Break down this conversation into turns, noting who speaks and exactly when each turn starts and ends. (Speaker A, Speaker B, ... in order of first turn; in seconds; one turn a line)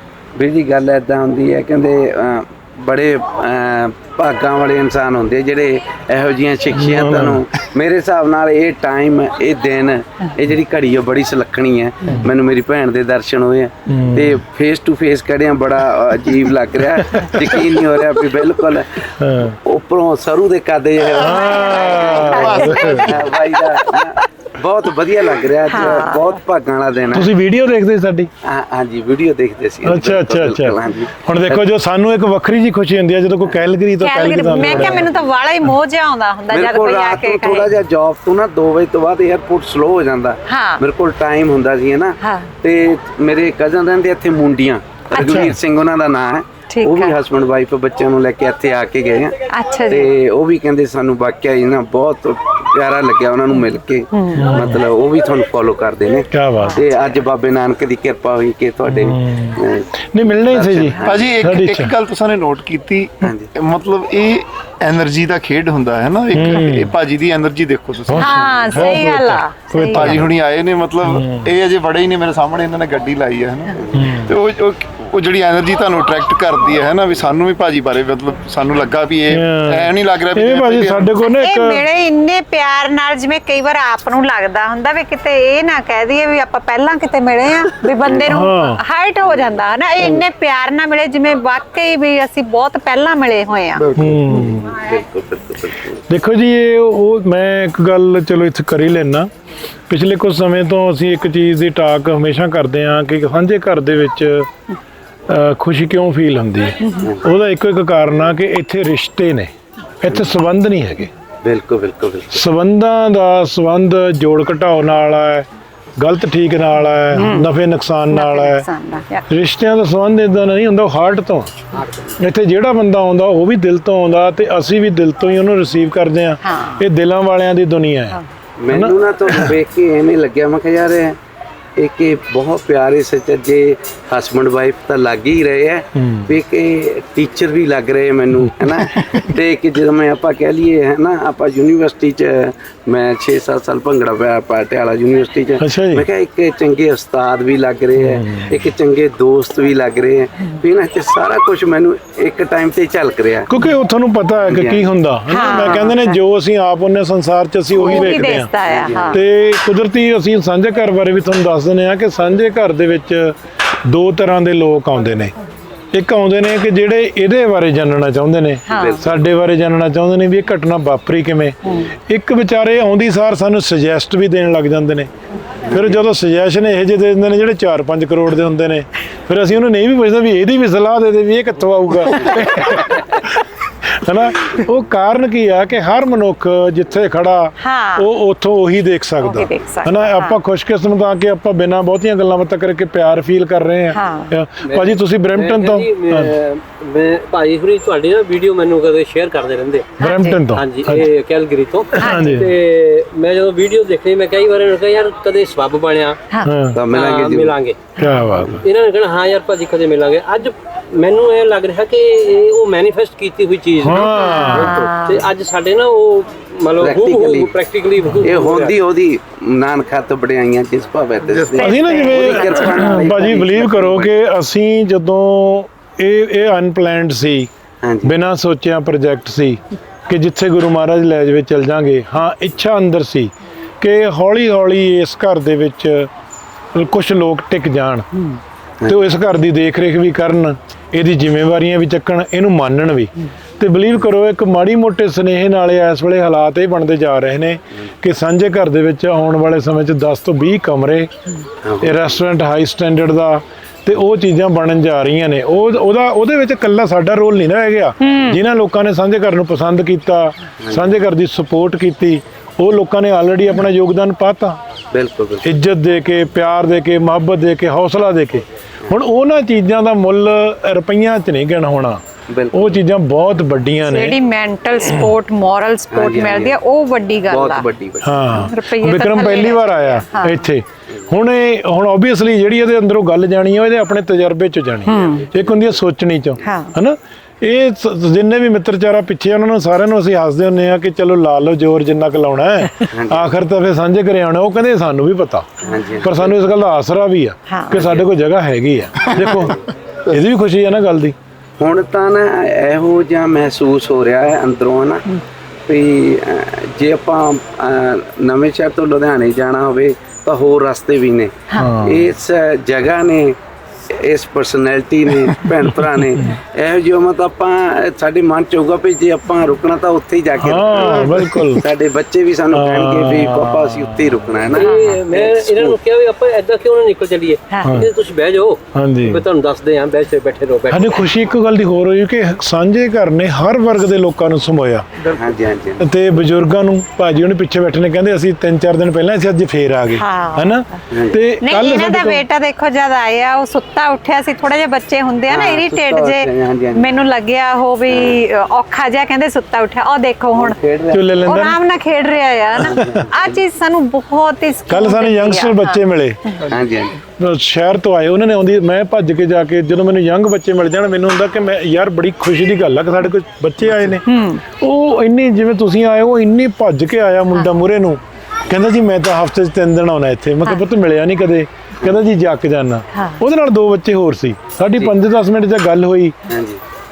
Speaker A: 0.3-27.3
Speaker B: 6.7-7.4
Speaker B: 13.9-14.4
Speaker B: 16.9-17.8
Speaker B: 19.2-19.6
Speaker B: 21.2-23.1
Speaker C: 21.2-23.1
Speaker D: 22.3-23.2
Speaker C: 25.7-26.3
Speaker B: 27.1-28.3
Speaker A: 28.4-31.7
Speaker B: 29.8-35.1
Speaker C: 34.0-37.7
Speaker A: 34.6-35.3
Speaker A: 36.5-49.4
Speaker C: 40.5-40.8
Speaker C: 42.2-42.5
Speaker C: 45.1-45.4
Speaker B: 45.1-45.5
Speaker C: 46.7-47.1
Speaker C: 49.5-50.1
Speaker A: 49.9-61.3
Speaker C: 54.1-54.5
Speaker B: 54.3-54.8
Speaker B: 56.3-56.8
Speaker B: 58.9-61.9
Speaker D: 61.0-68.9
Speaker A: 63.2-63.5
Speaker B: 66.3-66.9
Speaker B: 68.1-70.3
Speaker C: 68.2-70.1
Speaker D: 69.9-81.1
Speaker B: 71.0-71.5
Speaker A: 73.8-74.2
Speaker B: 74.0-74.3
Speaker B: 79.3-81.8
Speaker C: 81.2-93.9
Speaker A: 88.0-88.3
Speaker B: 88.3-88.8
Speaker A: 89.2-90.2
Speaker B: 94.0-94.7
Speaker A: 94.0-96.0
Speaker B: 96.1-99.3
Speaker B: 99.9-104.5
Speaker B: 105.3-111.1
Speaker A: 107.0-107.3
Speaker A: 110.1-110.3
Speaker A: 111.4-112.4
Speaker B: 112.3-115.5
Speaker B: 116.0-118.7
Speaker C: 117.1-117.5
Speaker C: 118.1-119.3
Speaker B: 119.3-121.5
Speaker E: 121.7-122.2
Speaker B: 122.2-128.2
Speaker C: 126.4-126.8
Speaker A: 128.6-131.2
Speaker B: 128.7-129.5
Speaker A: 131.8-153.5
Speaker B: 135.9-136.3
Speaker B: 138.4-139.3
Speaker B: 145.6-146.1
Speaker B: 148.0-148.6
Speaker B: 153.5-158.5
Speaker A: 154.4-154.9
Speaker C: 155.3-156.2
Speaker C: 157.7-159.2
Speaker A: 157.8-159.2
Speaker B: 159.1-165.3
Speaker B: 165.9-175.1
Speaker C: 168.7-169.0
Speaker A: 168.7-169.2
Speaker A: 175.7-176.0
Speaker B: 175.7-196.3
Speaker C: 187.6-188.1
Speaker C: 189.2-190.4
Speaker C: 193.9-194.3
Speaker E: 194.6-206.2
Speaker C: 200.0-200.4
Speaker B: 200.0-201.1
Speaker B: 201.9-202.5
Speaker C: 202.0-202.3
Speaker B: 206.4-206.8
Speaker A: 206.7-207.6
Speaker E: 206.9-207.8
Speaker B: 208.0-208.6
Speaker E: 208.5-218.8
Speaker B: 213.8-214.8
Speaker C: 214.0-215.2
Speaker A: 216.8-217.5
Speaker A: 218.2-224.1
Speaker B: 221.6-227.5
Speaker C: 221.6-222.6
Speaker A: 227.8-228.1
Speaker B: 228.0-236.1
Speaker B: 236.7-238.2
Speaker B: 238.9-251.1
Speaker A: 251.6-252.2
Speaker B: 251.8-264.6
Speaker C: 258.0-258.4
Speaker A: 260.6-261.0
Speaker A: 264.9-265.5
Speaker B: 265.4-272.0
Speaker A: 272.3-272.8
Speaker B: 272.5-274.2
Speaker C: 273.8-277.6
Speaker A: 275.9-276.6
Speaker A: 277.2-278.4
Speaker B: 278.0-301.1
Speaker C: 278.3-280.4
Speaker C: 284.9-285.3
Speaker A: 285.0-285.8
Speaker C: 286.4-286.7
Speaker A: 292.9-293.3
Speaker C: 295.6-295.9
Speaker A: 295.6-296.4
Speaker C: 297.5-297.9
Speaker A: 297.7-298.1
Speaker A: 299.1-299.7
Speaker A: 301.6-305.1
Speaker A: 305.7-313.4
Speaker B: 311.5-312.1
Speaker A: 313.9-325.8
Speaker B: 315.2-315.7
Speaker B: 320.4-321.6
Speaker B: 322.5-323.8
Speaker E: 324.5-331.1
Speaker C: 324.6-324.9
Speaker C: 327.5-327.8
Speaker B: 328.7-329.2
Speaker B: 330.7-334.9
Speaker A: 335.1-335.9
Speaker B: 335.8-342.2
Speaker C: 339.9-340.6
Speaker A: 340.9-341.2
Speaker C: 341.4-350.6
Speaker A: 345.3-346.9
Speaker A: 347.9-348.2
Speaker A: 350.3-351.2
Speaker B: 350.9-351.6
Speaker C: 351.1-356.5
Speaker A: 352.6-353.4
Speaker B: 352.7-353.0
Speaker B: 354.7-356.3
Speaker A: 356.5-356.9
Speaker B: 357.2-376.1
Speaker C: 364.1-364.4
Speaker C: 372.9-373.2
Speaker A: 376.3-376.6